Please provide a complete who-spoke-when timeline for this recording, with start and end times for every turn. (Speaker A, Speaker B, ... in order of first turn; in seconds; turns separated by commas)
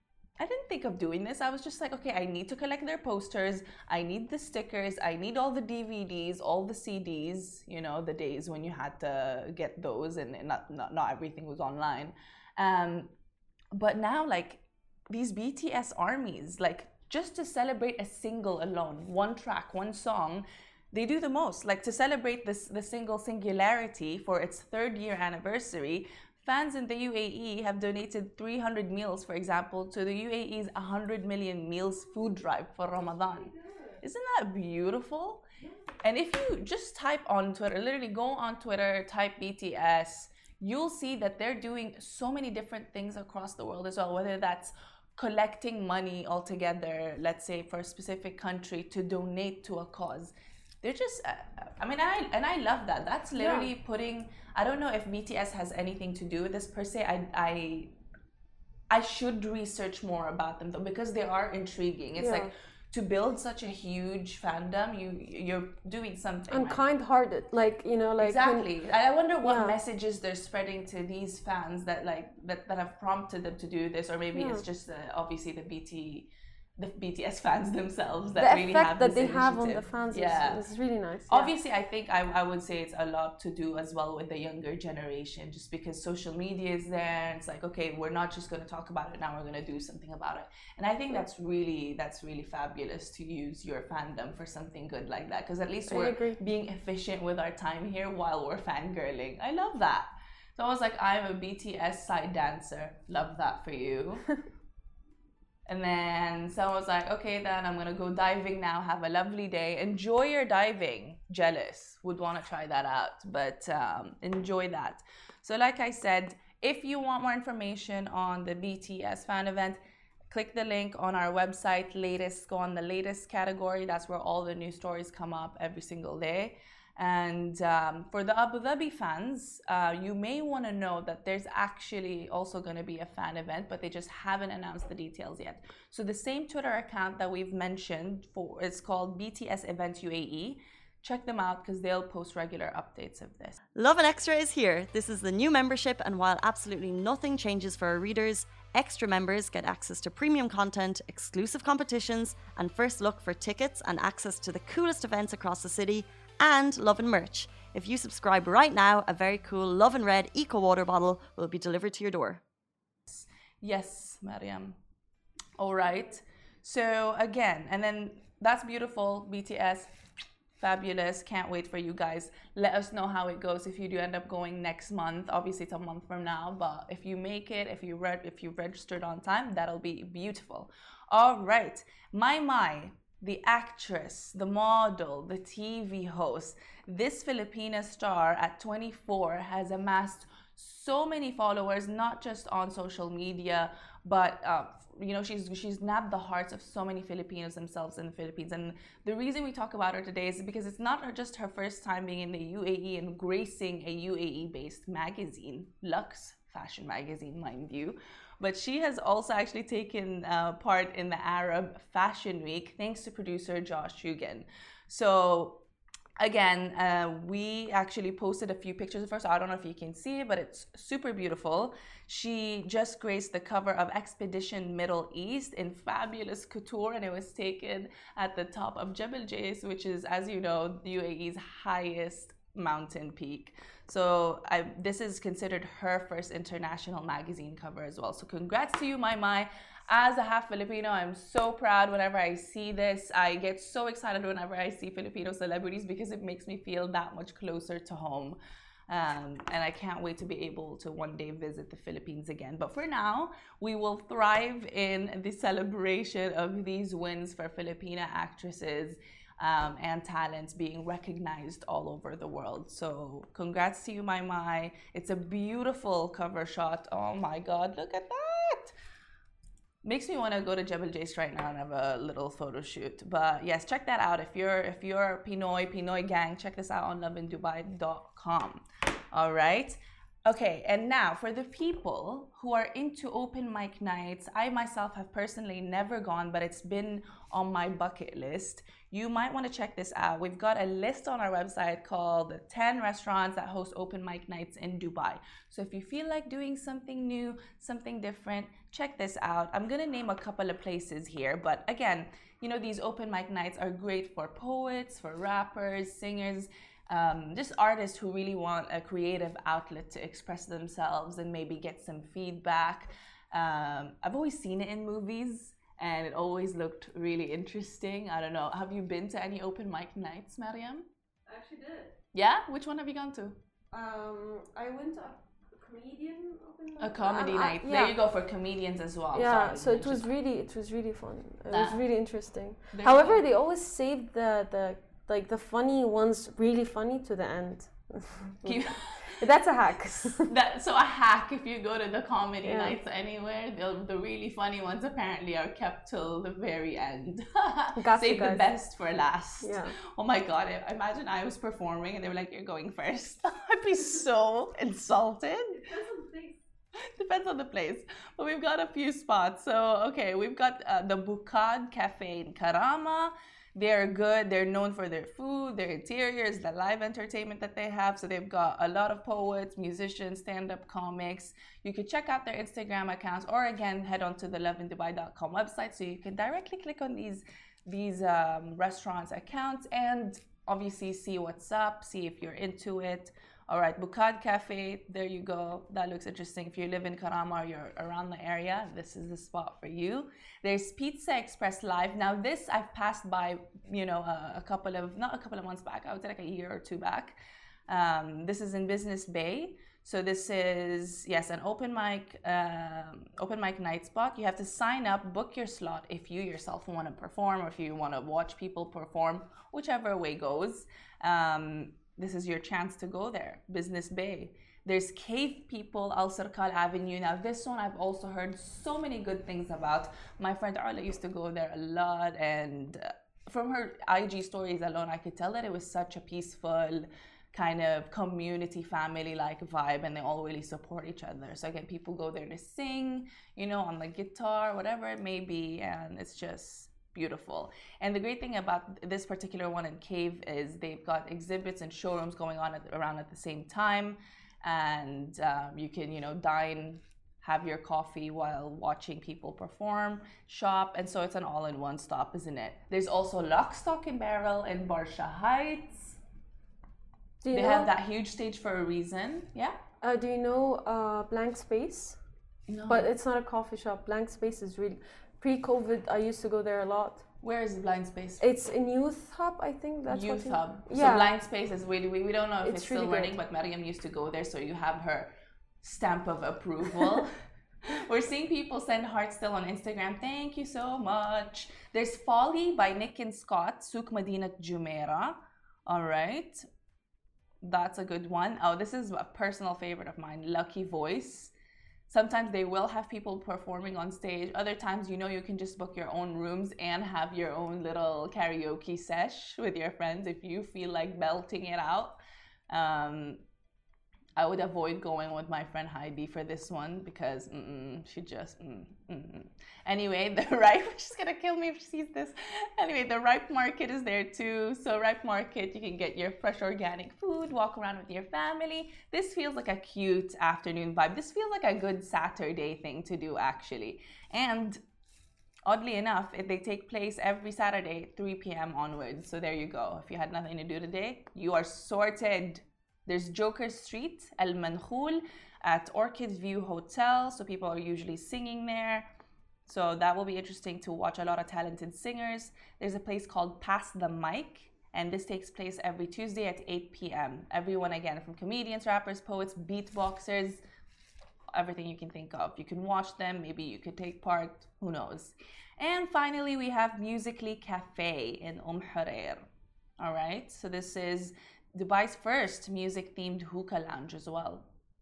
Speaker A: 0.4-13.1, Speaker A: 13.7-35.4, Speaker B: 33.6-33.9, Speaker A: 36.0-57.9, Speaker B: 53.3-53.7, Speaker A: 58.9-66.8, Speaker B: 62.2-62.5, Speaker B: 66.5-68.7, Speaker A: 68.2-80.7, Speaker B: 69.4-69.7, Speaker B: 74.3-74.6, Speaker B: 78.4-81.5, Speaker A: 81.3-104.3, Speaker B: 95.9-96.4, Speaker A: 105.7-143.6, Speaker C: 143.7-162.4, Speaker A: 163.1-164.8, Speaker A: 165.6-169.9, Speaker A: 170.6-215.6, Speaker A: 216.2-248.4, Speaker A: 248.9-268.7, Speaker A: 269.8-320.9, Speaker B: 321.3-321.9, Speaker A: 322.1-323.4, Speaker B: 323.7-328.0, Speaker A: 326.8-330.1, Speaker B: 329.1-340.3, Speaker A: 331.5-331.9, Speaker A: 332.7-333.2, Speaker A: 338.4-339.3, Speaker A: 340.2-355.7, Speaker B: 342.4-342.8, Speaker B: 347.8-348.5, Speaker B: 349.4-349.8, Speaker B: 355.6-356.4, Speaker A: 356.9-456.0, Speaker B: 457.2-457.7, Speaker A: 457.3-459.6, Speaker B: 459.8-462.0, Speaker A: 462.5-462.9, Speaker B: 462.7-467.0, Speaker A: 467.2-468.3, Speaker B: 468.2-471.2, Speaker A: 469.9-475.1, Speaker B: 472.4-473.2, Speaker A: 475.6-477.1, Speaker A: 477.6-486.4, Speaker A: 487.4-491.3, Speaker A: 491.9-502.0, Speaker A: 502.5-503.2, Speaker A: 504.2-524.6, Speaker A: 525.5-538.9, Speaker A: 539.5-550.4, Speaker A: 551.3-559.2, Speaker A: 559.8-564.5